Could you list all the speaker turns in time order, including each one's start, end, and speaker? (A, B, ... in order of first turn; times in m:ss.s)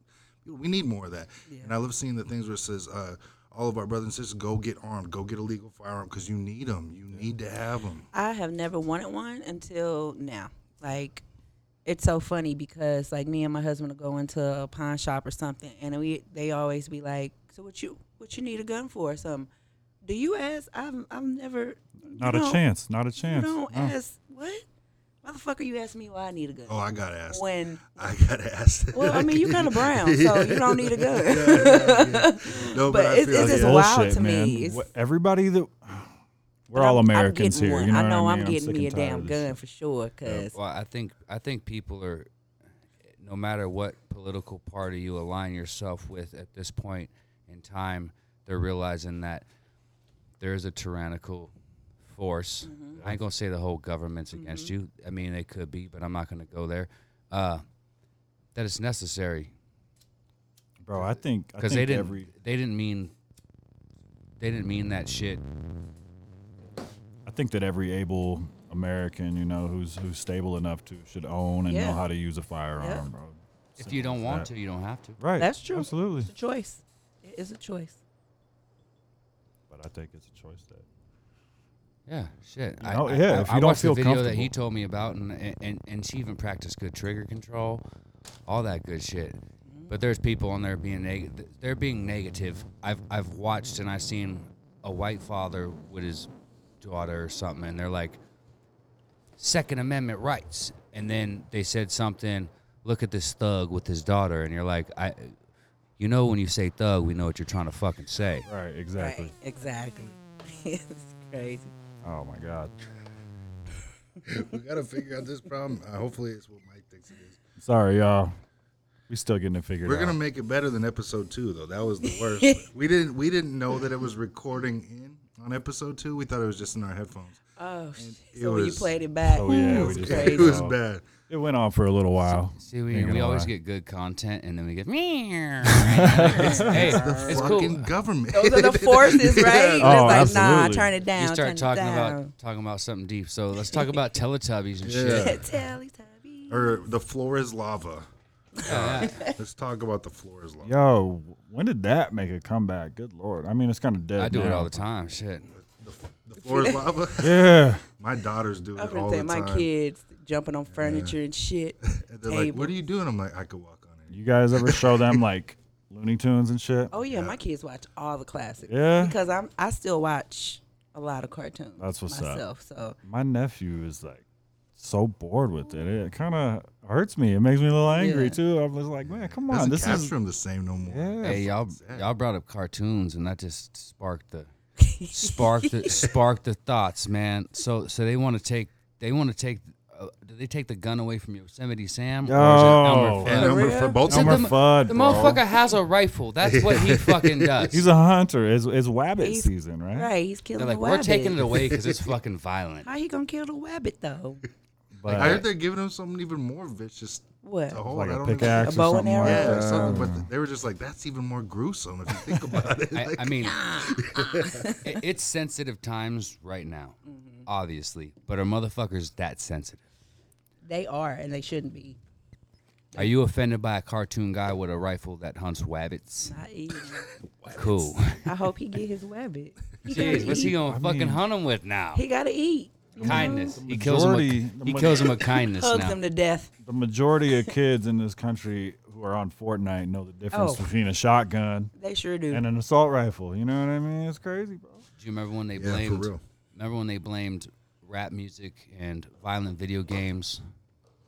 0:00.4-0:08.1 A
0:01.5-0:01.7 B
0:08.1-0:11.2 B
0:11.8-0:19.5 B
0:20.0-0:22.6 B
0:22.1-0:24.0 C
0:23.2-0:24.6 B
0:25.2-0:26.8 B
0:26.7-0:33.8 A
0:27.3-0:28.1 B
0:28.9-0:34.9 B
0:33.3-0:36.1 C
0:36.7-0:39.6 C
0:36.7-0:40.5 B
0:40.2-0:40.5 C
0:40.5-0:42.3 D
0:43.0-0:49.4 D
0:50.4-0:51.5 D
0:52.0-0:57.6 D
0:52.6-0:53.0 B
0:53.0-0:53.2 C
0:54.3-0:54.7 B
0:58.5-0:59.5 D
1:00.8-1:02.3 C
1:01.0-1:03.1 D
1:04.4-1:05.4 D
1:07.2-1:14.5 C
1:11.7-1:12.0 B
1:12.8-1:13.0 B
1:13.8-1:15.2 D
1:15.2-1:16.3 C
1:15.4-1:18.0 B
1:19.7-1:20.8 C
1:22.1-1:27.8 D
1:22.8-1:24.5 C
1:28.5-1:36.3 D
1:29.6-1:29.9 B
1:36.8-1:38.2 D
1:39.4-1:45.4 D
1:46.0-1:48.5 D
1:48.4-1:49.3 C
1:49.0-1:51.7 B
1:52.0-1:52.8 C
1:54.2-1:57.4 A
1:57.6-1:58.4 C
1:59.1-2:00.2 C
1:59.8-2:07.4 A
2:02.0-2:02.6 B
2:07.6-2:10.7 B
2:08.0-2:11.1 A
2:09.2-2:13.5 C
2:12.2-2:17.9 D
2:15.7-2:17.2 C
2:16.3-2:17.5 B
2:16.6-2:20.4 A
2:18.3-2:22.3 B
2:19.8-2:20.9 C
2:21.1-2:25.4 D
2:23.7-2:23.9 B
2:24.8-2:25.4 A
2:25.2-2:26.8 B
2:26.5-2:28.1 A
2:28.6-2:30.8 A
2:28.6-2:29.3 B
2:28.6-2:29.3 D
2:30.6-2:34.8 C
2:34.2-2:35.5 D
2:35.5-2:39.7 A
2:36.4-2:37.0 B
2:37.2-2:37.8 C
2:38.8-2:42.8 B
2:40.7-2:41.2 A
2:41.8-2:45.2 A
2:44.1-2:46.9 C
2:46.9-2:53.0 B
2:47.0-2:47.4 A
2:48.7-2:49.2 C
2:51.8-2:52.4 C
2:53.0-3:00.1 C
2:57.8-2:58.4 B
2:59.0-3:02.1 A
3:00.9-3:01.5 C
3:01.2-3:04.5 D
3:04.8-3:06.1 B
3:05.1-3:17.8 D
3:12.2-3:13.5 C
3:13.2-3:15.3 A
3:13.3-3:14.1 B
3:14.0-3:15.4 C
3:16.4-3:17.7 A
3:17.7-3:20.1 C
3:19.2-3:21.6 B
3:20.6-3:22.9 D
3:21.5-3:22.0 A
3:22.8-3:24.4 B
3:24.9-3:25.4 C
3:25.1-3:25.4 D
3:25.1-3:34.7 A
3:27.4-3:27.8 B
3:27.8-3:30.3 C
3:28.3-3:30.1 B
3:32.9-3:33.6 D
3:33.4-3:35.0 B
3:34.8-3:39.8 D
3:37.0-3:37.4 B
3:40.6-3:42.0 B
3:42.9-3:46.4 D
3:46.2-3:50.6 B
3:47.3-3:47.6 A
3:47.5-3:48.3 D
3:49.8-3:52.0 D
3:50.4-3:51.2 C
3:51.9-3:53.6 B
3:53.0-3:55.2 C
3:53.0-3:56.0 D
3:55.4-3:56.5 B
3:56.6-4:01.7 C
4:00.3-4:00.7 B
4:01.7-4:02.4 B
4:02.3-4:04.8 C
4:05.0-4:10.4 D
4:05.5-4:06.2 A